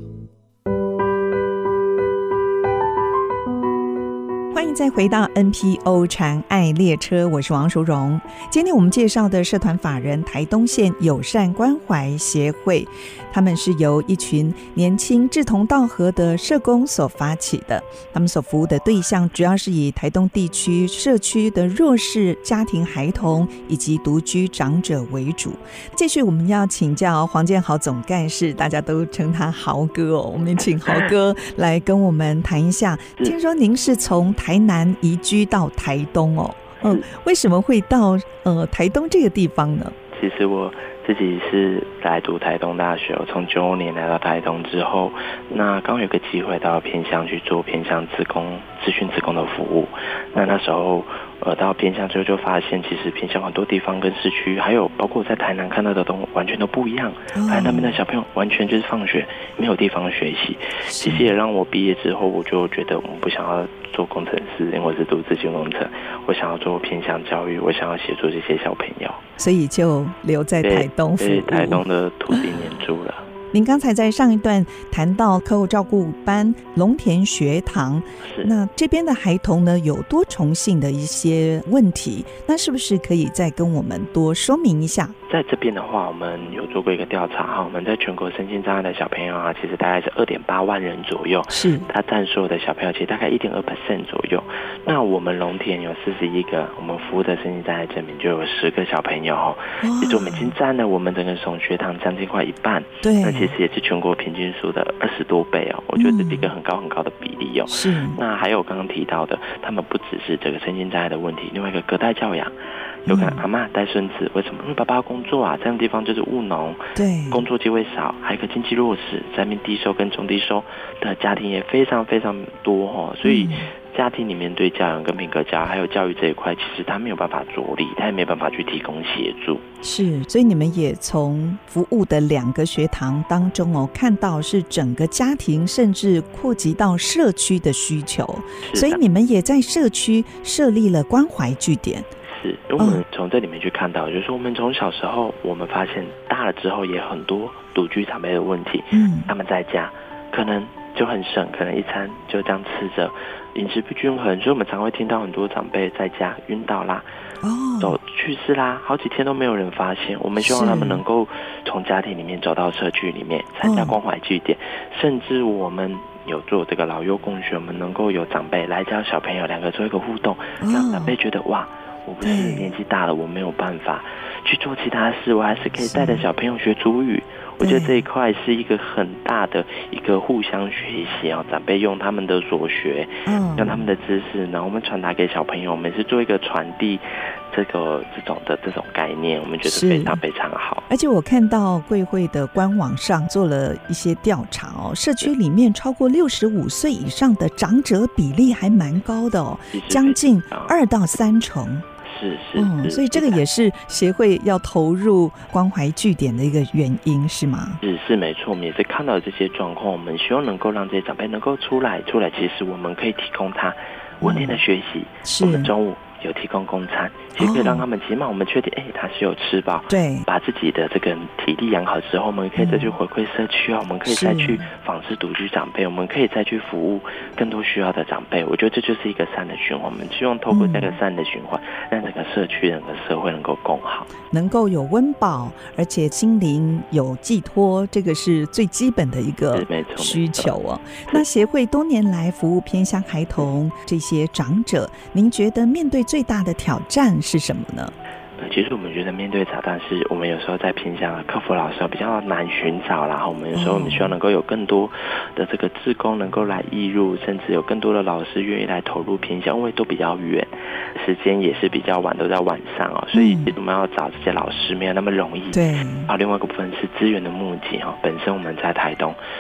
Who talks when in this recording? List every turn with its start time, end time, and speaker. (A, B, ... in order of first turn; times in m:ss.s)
0:04.5-0:40.0 A
0:40.1-1:09.2 B
0:57.4-0:58.0 A
1:00.9-1:01.3 A
1:09.4-1:11.8 A
1:10.6-1:13.3 B
1:13.5-1:25.2 A
1:18.2-1:18.5 B
1:25.3-2:09.6 B
1:31.5-1:31.9 A
1:39.8-1:40.6 A
1:43.0-1:43.5 A
1:46.0-1:46.5 A
1:47.7-1:48.2 A
1:53.1-1:53.4 A
1:57.0-1:57.4 A
2:03.2-2:03.7 A
2:09.8-2:22.1 A
2:18.6-2:19.0 B
2:22.3-2:37.1 B
2:28.9-2:29.3 A
2:37.4-2:38.0 A
2:37.8-3:10.9 B
2:40.4-2:41.0 A
2:43.6-2:44.0 A
2:50.6-2:51.2 A
2:52.2-2:52.7 A
2:55.8-2:56.2 A
2:57.6-2:58.0 A
3:03.3-3:03.8 A
3:09.6-3:10.2 A
3:10.9-3:21.9 A
3:19.7-3:20.8 B
3:22.0-3:23.4 B
3:22.6-3:27.8 A
3:27.8-3:54.1 B
3:34.2-3:34.6 A
3:35.2-3:35.7 A
3:37.4-3:37.8 A
3:39.9-3:40.3 A
3:42.6-3:43.0 A
3:44.1-3:44.7 A
3:50.5-3:51.0 A
3:54.3-4:07.9 A
3:59.5-4:00.6 B
4:08.4-4:29.2 B
4:13.5-4:14.1 A
4:23.1-4:23.5 A
4:25.5-4:26.1 A